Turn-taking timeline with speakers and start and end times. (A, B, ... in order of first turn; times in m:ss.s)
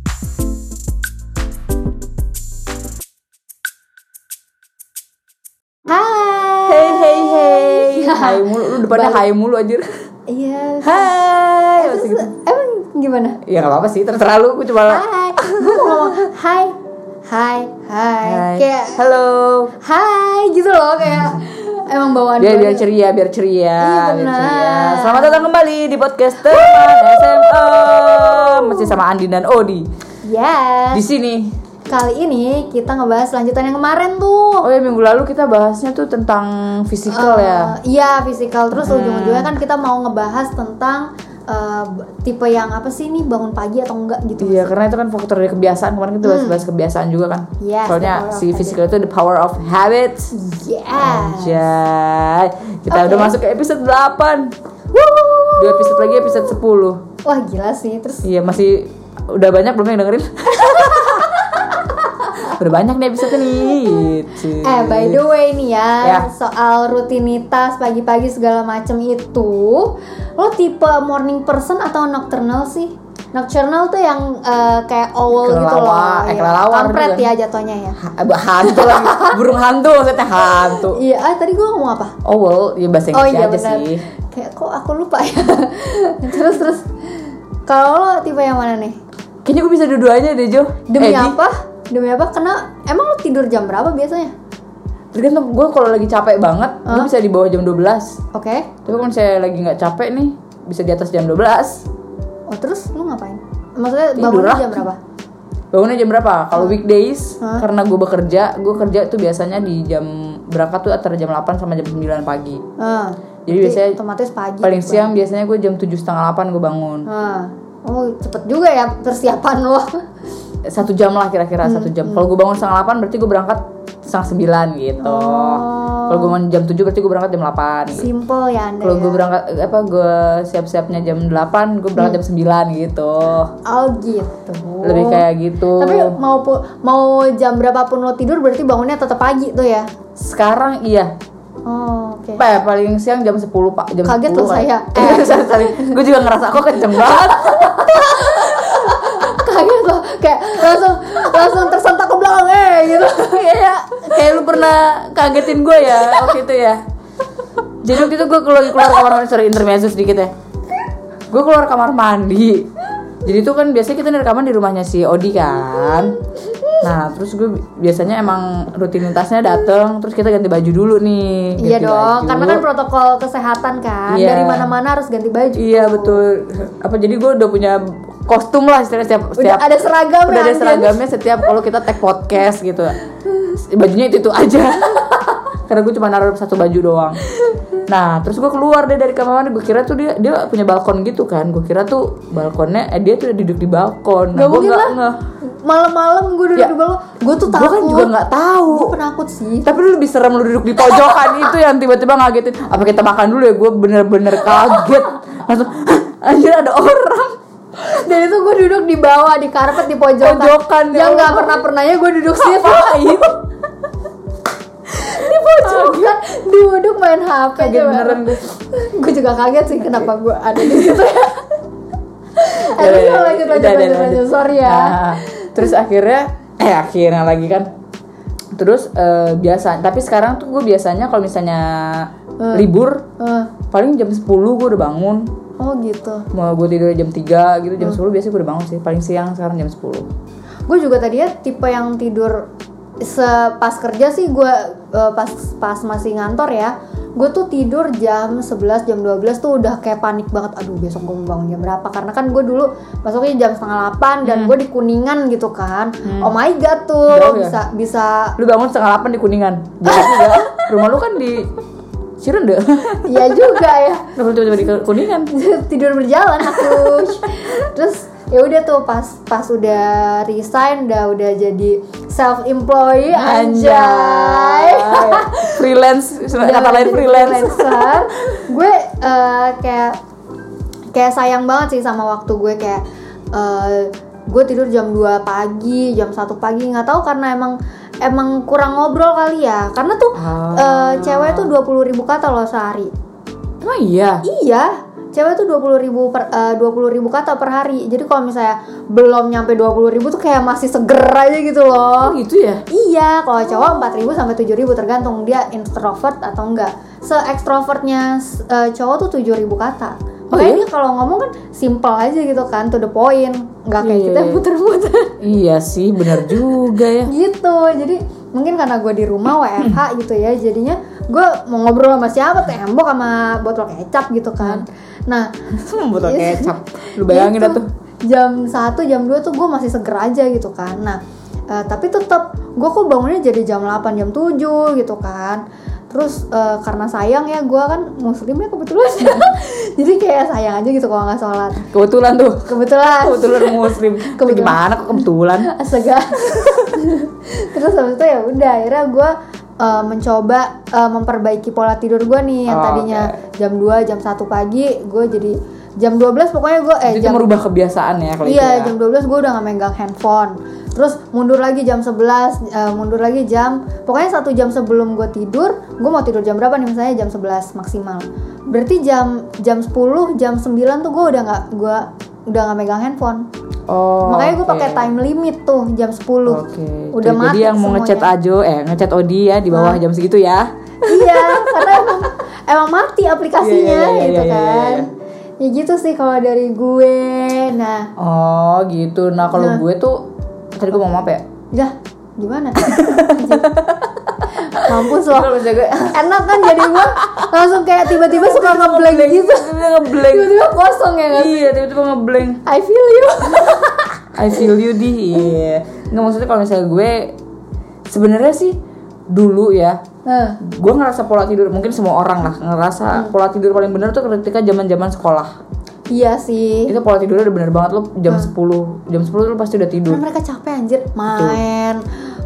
0:05.8-0:09.2 A
0:06.6-0:09.9 B
0:10.3-0:13.4 A
0:10.8-0:12.3 B
0:13.4-0:16.1 B
0:14.8-0:16.8 A
0:17.3-0:19.0 A
0:18.2-0:19.7 B
0:19.8-0:22.8 A
0:22.4-0:29.9 B
0:23.8-0:25.5 A
0:26.5-0:28.9 A
0:30.2-0:31.0 A
0:30.9-0:31.5 B
0:31.9-0:34.7 A
0:34.6-0:37.7 B
0:37.1-0:44.7 A
0:38.8-0:39.5 B
0:44.4-0:50.3 B
0:46.2-0:46.6 A
0:47.6-0:48.8 A
0:50.3-0:51.6 A
0:51.0-0:54.5 B
0:52.9-0:53.3 A
0:54.9-0:56.6 A
0:55.6-0:57.0 B
0:57.2-0:58.2 A
0:58.2-1:05.2 B
1:00.8-1:01.3 A
1:03.4-1:04.0 A
1:04.6-1:18.0 A
1:06.0-1:06.3 B
1:15.4-1:17.3 B
1:18.0-1:21.0 B
1:18.6-1:19.4 A
1:20.4-1:22.2 A
1:22.2-1:24.0 B
1:23.1-1:29.0 A
1:29.4-1:31.4 B
1:30.9-1:34.3 A
1:35.1-1:38.2 B
1:36.8-1:37.1 A
1:38.3-1:38.7 A
1:38.8-1:41.8 B
1:42.5-1:45.0 A
1:44.2-1:44.8 B
1:45.7-1:52.6 B
1:46.5-1:46.8 A
1:47.4-1:47.6 A
1:52.8-1:55.1 A
1:53.4-1:54.0 B
1:54.6-1:57.1 B
1:57.1-2:00.0 A
2:00.6-2:08.1 B
2:01.6-2:02.2 A
2:05.0-2:06.4 A
2:07.9-2:09.2 A
2:08.8-2:13.5 B
2:13.6-2:19.9 A
2:14.8-2:16.2 B
2:20.2-2:21.1 B
2:21.6-2:22.4 A
2:22.4-2:29.2 B
2:24.0-2:26.0 A
2:27.1-2:34.4 A
2:33.1-2:36.8 B
2:37.8-2:40.3 B
2:41.3-2:46.2 B
2:46.8-2:52.6 B
2:51.6-2:56.2 A
2:54.1-2:54.7 B
2:55.5-2:59.7 B
2:59.4-3:01.0 A
3:00.2-3:07.2 B
3:07.8-3:15.2 B
3:14.3-3:18.1 A
3:17.5-3:18.9 B
3:18.7-3:19.8 A
3:19.6-3:27.4 B
3:27.8-3:33.3 A
3:30.2-3:31.6 B
3:32.4-3:33.4 B
3:34.9-3:41.6 A
3:35.0-3:36.2 B
3:37.5-3:38.4 B
3:40.6-3:41.0 B
3:42.3-3:45.6 A
3:42.5-3:47.7 B
3:48.5-3:53.1 B
3:52.4-3:52.7 A
3:53.2-3:53.5 A
3:53.7-3:55.3 B
3:55.6-3:56.3 A
3:56.3-4:00.1 B
4:00.7-4:02.5 A
4:03.0-4:18.3 A
4:14.2-4:14.6 B
4:16.0-4:16.4 B
4:17.1-4:17.6 B
4:18.4-4:21.5 B
4:19.8-4:20.6 A
4:22.2-4:23.6 B
4:23.0-4:24.1 A
4:24.1-4:25.3 B
4:25.3-4:35.7 A
4:26.5-4:27.0 B
4:33.1-4:38.4 B
4:36.3-4:40.0 A
4:40.9-4:52.9 A
4:50.1-4:51.5 B
4:53.6-4:54.2 B
4:54.2-5:15.2 A
5:02.0-5:02.6 B
5:10.3-5:10.6 B
5:13.8-5:14.4 B
5:15.2-5:17.1 B
5:16.0-5:25.3 A
5:25.5-5:27.7 B
5:25.9-5:41.7 A
5:41.7-5:45.5 B
5:42.4-5:57.3 A
5:52.5-5:53.2 B
5:56.8-5:58.7 B
5:58.2-6:13.3 A
6:13.7-6:14.9 B
6:14.0-6:16.4 A
6:16.3-6:22.1 B
6:16.9-6:18.1 A
6:19.5-6:19.8 A
6:20.8-6:24.9 A
6:23.4-6:24.9 B
6:25.4-6:27.9 A
6:28.0-6:31.2 B
6:29.4-6:29.6 A
6:31.5-6:33.5 A
6:32.6-6:37.3 B
6:34.4-6:41.5 A
6:37.9-6:40.4 B
6:41.1-6:42.4 B
6:42.4-6:44.5 A
6:44.1-6:47.2 B
6:47.9-6:48.6 B
6:49.1-6:49.8 B
6:50.0-6:50.4 A
6:50.4-6:55.4 B
6:55.9-6:56.7 A
6:56.7-7:00.0 B
6:59.9-7:01.9 A
7:01.1-7:01.4 B